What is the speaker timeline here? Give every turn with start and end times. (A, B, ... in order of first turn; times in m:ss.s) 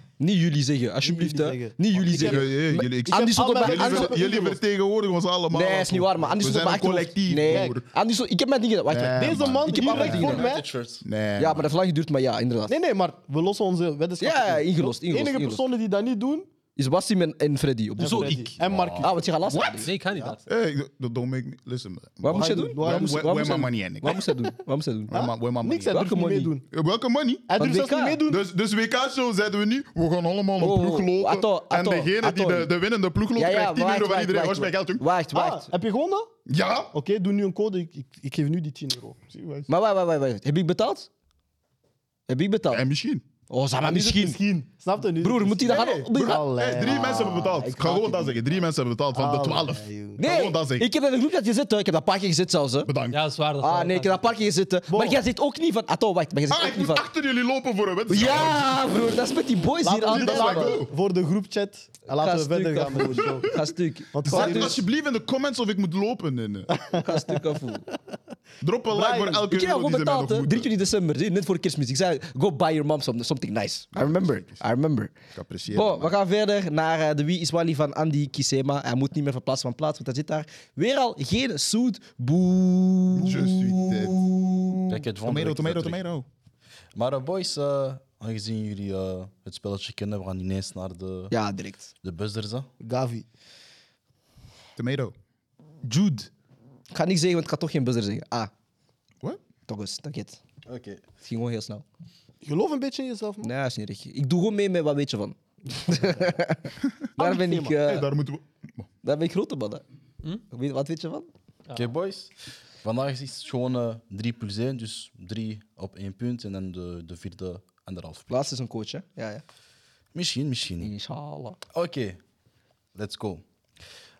0:00.2-0:04.2 A
0:01.0-0:04.6 B
0:02.1-0:07.8 C
0:05.5-0:10.6 A
0:07.5-0:07.8 B
0:08.9-0:10.5 C
0:09.1-0:10.7 B
0:10.1-0:11.0 D
0:11.0-0:11.7 C
0:11.4-0:12.8 A
0:12.7-0:16.5 B
0:14.2-0:15.6 A
0:16.8-0:18.5 A
0:18.0-0:18.6 E
0:18.0-0:20.4 B
0:18.6-0:19.1 C
0:19.0-0:19.9 A
0:19.8-0:20.4 E
0:20.5-0:24.2 C
0:22.2-0:25.1 A
0:22.3-0:23.6 B
0:25.1-0:26.0 C
0:25.1-0:26.6 B
0:25.9-0:26.5 A
0:26.7-0:27.5 C
0:27.5-0:28.4 B
0:27.6-0:28.2 A
0:28.3-0:35.0 C
0:30.6-0:32.7 A
0:33.3-0:35.7 A
0:35.3-0:36.3 B
0:36.5-0:36.9 C
0:36.9-0:39.2 B
0:39.3-0:39.7 C
0:39.7-0:41.1 A
0:42.3-0:42.8 A
0:42.7-0:43.2 C
0:43.5-0:44.4 A
0:43.8-0:47.7 B
0:45.2-0:48.6 A
0:46.5-0:50.9 C
0:49.1-0:50.2 B
0:50.2-0:52.9 A
0:52.8-0:53.2 C
0:53.1-0:54.2 E
0:53.6-0:57.1 A
0:54.9-0:55.2 B
0:56.5-0:59.1 C
0:58.1-1:00.8 A
0:59.8-1:03.6 B
1:00.1-1:00.9 C
1:02.1-1:04.8 A
1:04.1-1:04.8 B
1:04.3-1:06.7 C
1:06.7-1:07.1 B
1:07.0-1:07.8 A
1:08.6-1:10.7 C
1:08.9-1:09.5 B
1:09.5-1:15.1 A
1:14.1-1:14.6 C
1:15.3-1:16.1 C
1:15.7-1:24.7 A
1:23.2-1:26.2 C
1:24.9-1:26.0 D
1:26.9-1:31.3 D
1:31.3-1:31.9 A
1:32.0-1:32.7 D
1:32.8-1:33.2 B
1:34.8-1:35.1 C
1:35.8-1:36.3 E
1:36.9-1:38.5 A
1:39.7-1:40.4 A
1:40.6-1:41.0 D
1:41.2-1:41.8 A
1:42.4-1:43.5 B
1:43.4-1:48.1 A
1:47.2-1:47.8 B
1:47.8-1:48.9 C
1:49.0-1:49.8 A
1:50.5-1:51.3 A
1:51.7-1:58.3 D
1:58.3-1:59.4 A
2:00.1-2:00.9 D
2:00.8-2:01.6 A
2:01.7-2:02.2 D
2:02.9-2:03.4 D